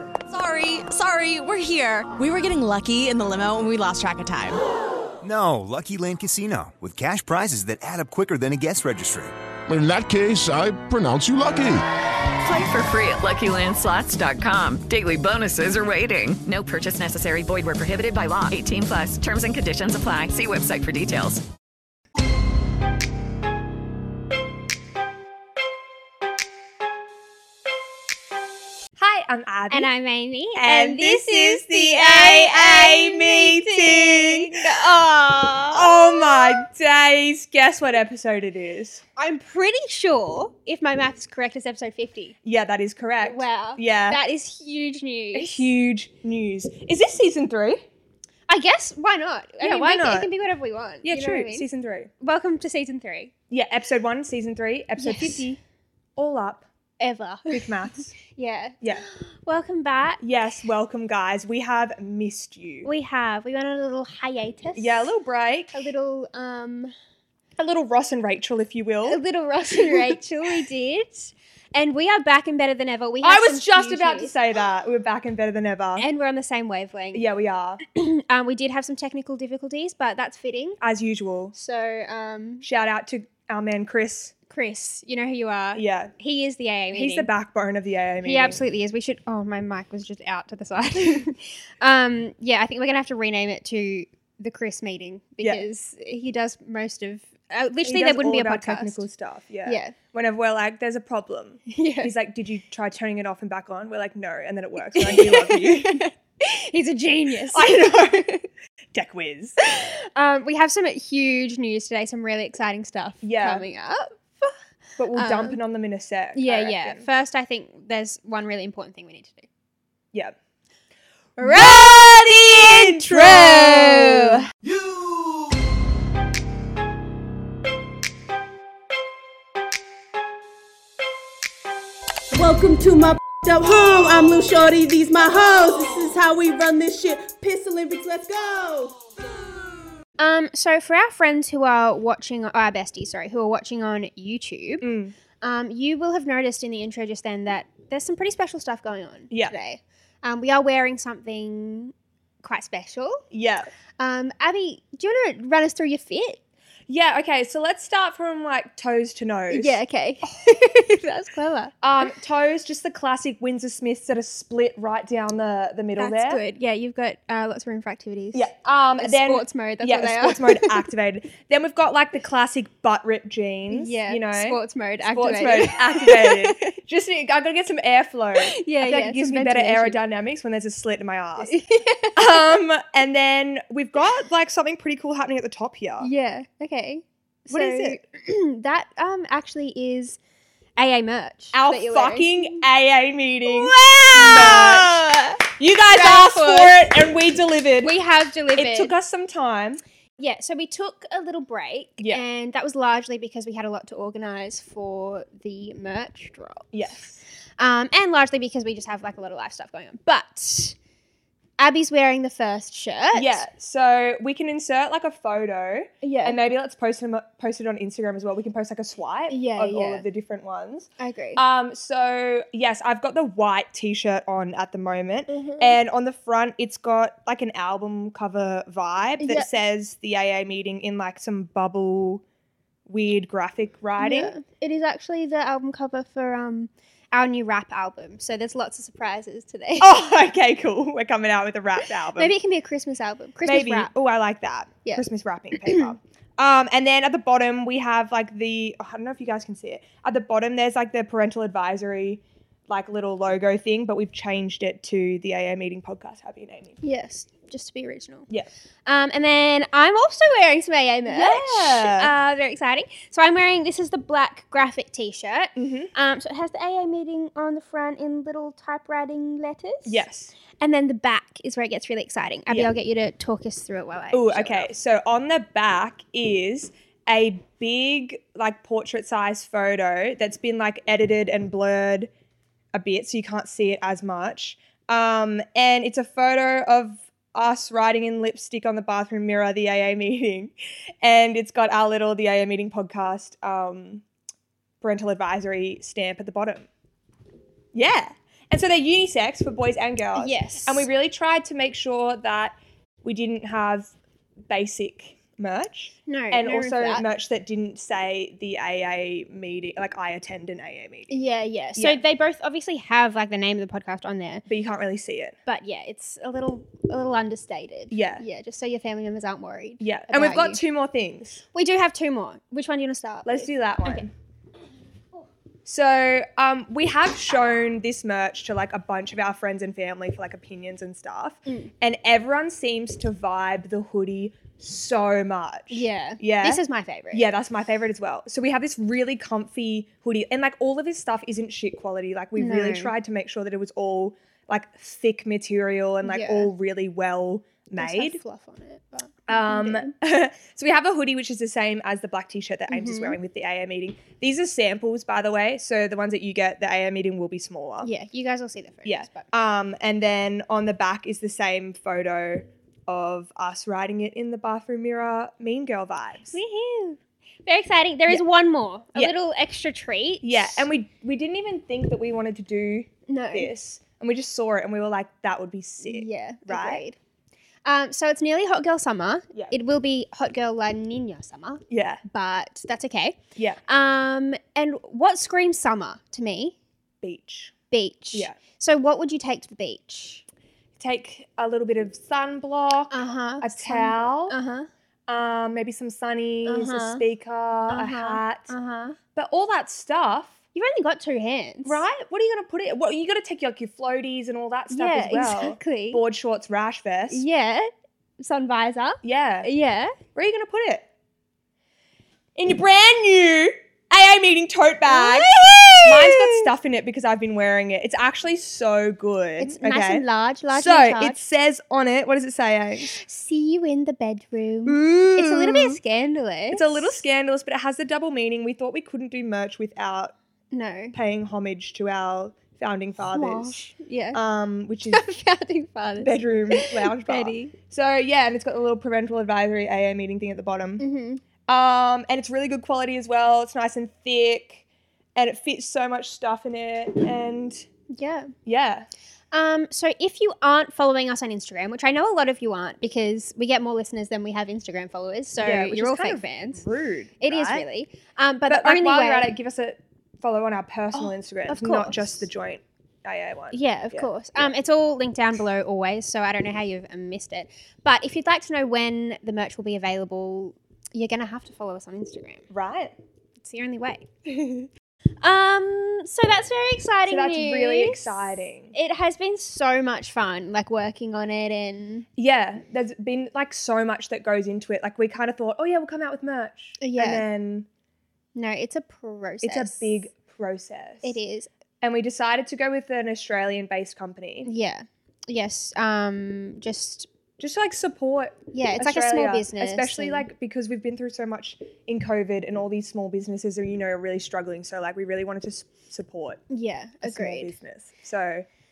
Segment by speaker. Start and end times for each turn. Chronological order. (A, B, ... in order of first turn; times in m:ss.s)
0:00.3-0:04.6 A
0:05.2-0:09.3 B
0:09.7-0:11.8 C
0:12.4-0:21.4 D
0:29.0-0:29.9 E
0:29.7-0:36.6 F
0:30.5-0:34.5 E
0:35.7-0:39.0 E
0:39.2-0:42.3 F
0:42.4-0:44.2 E
0:43.2-0:45.7 F
0:45.3-0:47.8 E
0:48.5-0:51.7 F
0:49.6-0:50.3 E
0:51.0-0:52.1 E
0:52.2-0:53.3 F
0:53.5-0:55.6 E
0:55.0-0:55.4 F
0:56.2-0:56.7 E
0:57.0-0:57.7 F
0:57.5-0:58.1 E
0:58.2-1:00.2 F
1:00.2-1:02.9 E
1:02.8-1:05.1 F
1:04.8-1:05.8 E
1:05.7-1:06.9 F
1:07.6-1:09.2 E
1:09.1-1:14.3 F
1:09.7-1:10.2 E
1:13.2-1:16.0 E
1:16.0-1:17.2 F
1:17.1-1:17.8 E
1:17.8-1:20.8 F
1:20.8-1:21.5 E
1:21.5-1:22.6 F
1:22.6-1:24.3 E
1:24.5-1:27.3 F
1:25.7-1:26.1 E
1:26.9-1:28.6 E
1:28.2-1:39.0 F
1:37.8-1:46.0 E
1:39.6-1:39.9 F
1:41.7-1:42.1 F
1:44.8-1:48.4 F
1:47.5-1:48.3 E
1:48.9-1:49.6 E
1:49.6-1:54.5 F
1:53.2-1:53.6 E
1:55.0-1:57.0 E
1:55.1-1:55.6 F
1:56.3-1:59.5 F
2:01.4-2:04.4 F
2:01.4-2:04.4 E
2:12.3-2:19.0 G
2:20.2-2:24.8 F
2:24.8-2:25.1 E
2:25.4-2:33.2 F
2:33.3-2:33.7 E
2:34.0-2:36.4 F
2:36.9-2:39.8 E
2:39.5-2:41.8 F
2:41.8-2:46.4 E
2:46.0-2:50.9 F
2:48.3-3:01.6 E
2:53.7-2:56.8 F
2:58.4-3:00.0 F
3:01.4-3:02.4 F
3:02.1-3:06.1 E
3:06.0-3:10.2 F
3:07.5-3:08.0 E
3:10.8-3:12.6 F
3:11.5-3:18.0 E
3:13.5-3:15.3 F
3:15.9-3:16.8 F
3:17.8-3:18.9 F
3:18.5-3:19.8 E
3:20.2-3:26.6 F
3:22.0-3:22.2 E
3:26.7-3:27.2 E
3:27.6-3:30.8 F
3:31.6-3:33.4 F
3:33.1-3:52.2 E
3:36.0-3:36.4 F
3:39.3-3:40.0 F
3:41.0-3:41.4 F
3:45.3-3:45.8 F
3:49.2-3:49.5 F
3:52.8-3:54.3 E
3:54.0-4:00.0 F
3:59.8-4:02.3 E
4:02.2-4:03.9 F
4:03.4-4:16.8 E
4:05.6-4:05.9 F
4:16.8-4:18.3 F
4:18.8-4:30.0 F
4:21.0-4:22.1 E
4:25.6-4:25.9 E
4:29.8-4:30.3 E
4:30.6-4:34.7 F
4:32.5-4:32.8 E
4:34.1-4:42.1 E
4:42.7-4:54.0 E
4:54.8-4:56.7 E
4:57.7-5:03.9 E
5:00.2-5:00.9 F
5:04.5-5:11.1 E
5:06.1-5:07.0 F
5:11.1-5:14.4 F
5:11.7-5:12.0 E
5:14.5-5:15.4 E
5:15.4-5:20.6 F
5:17.9-5:18.2 E
5:19.8-5:21.4 E
5:21.5-5:24.0 F
5:23.2-5:24.1 E
5:25.6-5:48.2 E
5:31.4-5:31.7 F
5:35.7-5:37.3 F
5:42.4-5:42.9 F
5:46.0-5:46.5 F
5:47.8-5:49.9 F
5:49.3-5:57.9 E
5:52.7-5:53.2 F
5:57.8-5:59.3 F
5:58.8-6:06.4 E
6:06.3-6:10.7 F
6:10.2-6:16.8 E
6:13.1-6:13.5 F
6:15.8-6:17.0 F
6:17.6-6:26.6 F
6:21.7-6:22.0 E
6:23.4-6:23.6 E
6:27.0-6:27.5 E
6:27.7-6:30.2 F
6:30.8-6:34.4 E
6:32.9-6:34.7 F
6:35.1-6:38.5 E
6:36.4-6:37.0 F
6:37.7-6:39.0 F
6:39.1-6:40.4 E
6:40.5-6:41.8 F
6:41.6-6:47.2 E
6:44.7-6:46.0 F
6:47.1-6:50.0 F
6:49.0-6:49.5 E
6:50.1-6:50.8 E
6:52.4-7:03.0 E
6:54.9-6:56.5 F
6:59.4-7:01.2 F
7:02.9-7:07.0 F
7:04.6-7:05.8 E
7:06.5-7:10.1 E
7:10.5-7:10.9 F
7:10.9-7:15.0 E
7:13.1-7:14.2 F
7:14.9-7:17.5 F
7:16.0-7:20.8 E
7:20.8-7:21.2 F
7:21.4-7:24.6 E
7:25.2-7:27.6 E
7:27.9-7:28.3 F
7:28.4-7:28.9 E
7:29.3-7:36.6 F
7:35.4-7:37.6 E
7:37.2-7:39.3 F
7:38.5-7:44.5 E
7:40.9-7:42.2 F
7:43.5-7:52.5 F
7:52.5-7:52.9 E
7:53.4-7:54.7 F
7:55.2-7:58.1 F
7:57.1-7:58.7 E
7:58.7-8:02.1 F
8:02.2-8:07.7 E
8:06.8-8:07.2 F
8:08.3-8:09.9 F
8:09.4-8:11.2 E
8:11.0-8:11.5 F
8:11.8-8:14.5 E
8:14.4-8:17.1 F
8:17.4-8:26.4 E
8:18.5-8:20.3 F
8:26.5-8:27.5 F
8:27.0-8:28.4 E